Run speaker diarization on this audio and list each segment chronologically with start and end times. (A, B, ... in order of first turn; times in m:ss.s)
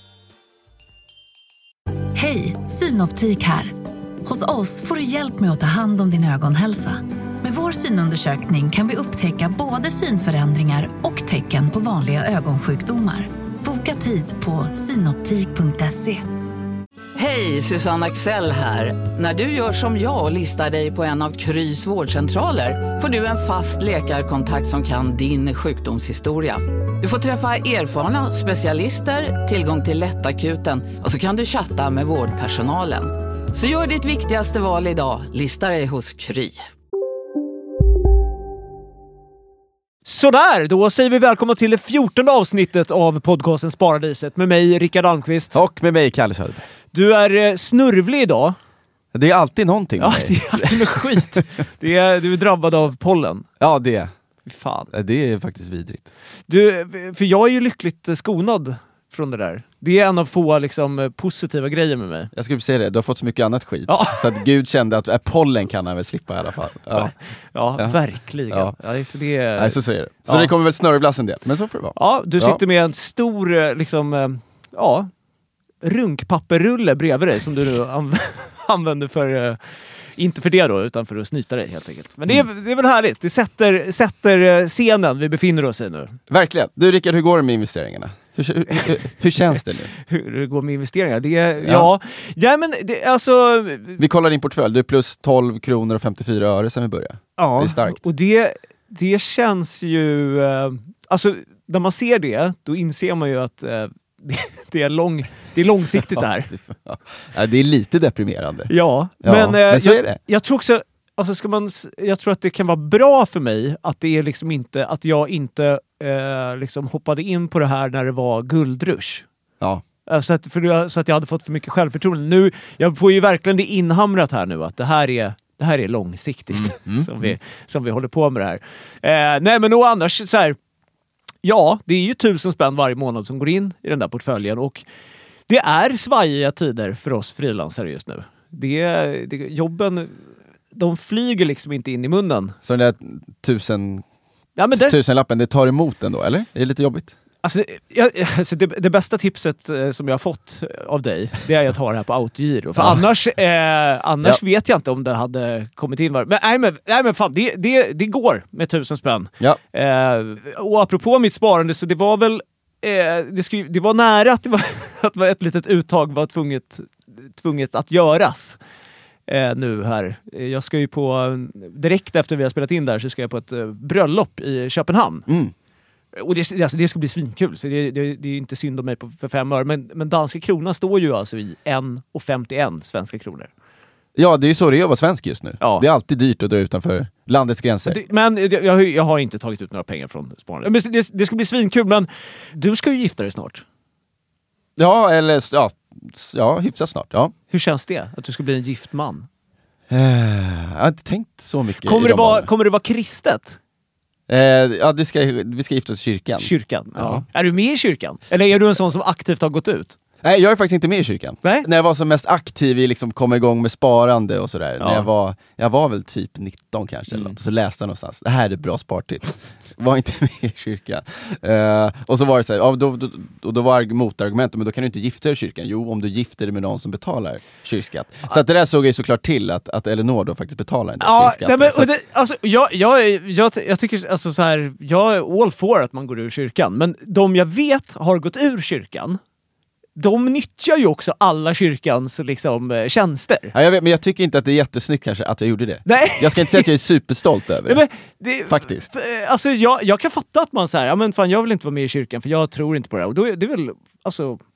0:02.1-0:03.7 A
0:04.2-0:16.2 A
0:17.2-0:36.6 B
0:40.0-0:45.6 C
0:45.5-0:46.6 D
0:46.9-0:48.6 C
0:49.1-0:51.4 D
0:50.0-0:53.4 C
0:53.6-0:54.1 D
0:54.4-0:54.9 C
0:54.9-0:56.1 D
0:56.5-1:02.3 C
1:02.3-1:07.1 D
1:03.9-1:04.4 C
1:06.9-1:10.5 C
1:08.5-1:08.7 D
1:09.6-1:12.6 D
1:12.0-1:15.1 C
1:15.8-1:19.6 C
1:20.2-1:26.2 C
1:26.3-1:29.9 D
1:30.0-1:34.0 C
1:31.6-1:31.9 D
1:34.0-1:38.0 D
1:37.4-1:46.5 C
1:46.5-1:48.7 D
1:48.7-1:59.2 C
1:49.2-1:50.2 D
2:00.0-2:10.6 C
2:06.5-2:07.4 D
2:11.4-2:14.8 C
2:15.5-2:22.6 C
2:22.6-2:24.0 D
2:24.6-2:25.0 C
2:24.7-2:27.1 D
2:27.4-2:48.6 C
2:32.8-2:33.0 D
2:49.3-2:55.3 C
2:55.3-2:55.5 D
2:56.1-3:03.5 C
3:04.2-3:08.0 D
3:05.6-3:05.8 C
3:07.8-3:13.6 C
3:14.8-3:17.3 D
3:17.5-3:19.3 C
3:19.9-3:22.5 D
3:21.8-3:23.6 C
3:24.3-3:27.2 D
3:26.4-3:30.0 C
3:30.2-3:51.9 D
3:31.4-3:31.7 C
3:34.8-3:35.1 C
3:51.0-3:59.2 C
4:00.0-4:03.5 C
4:03.5-4:07.8 D
4:05.8-4:06.7 C
4:07.6-4:14.4 C
4:08.5-4:08.9 D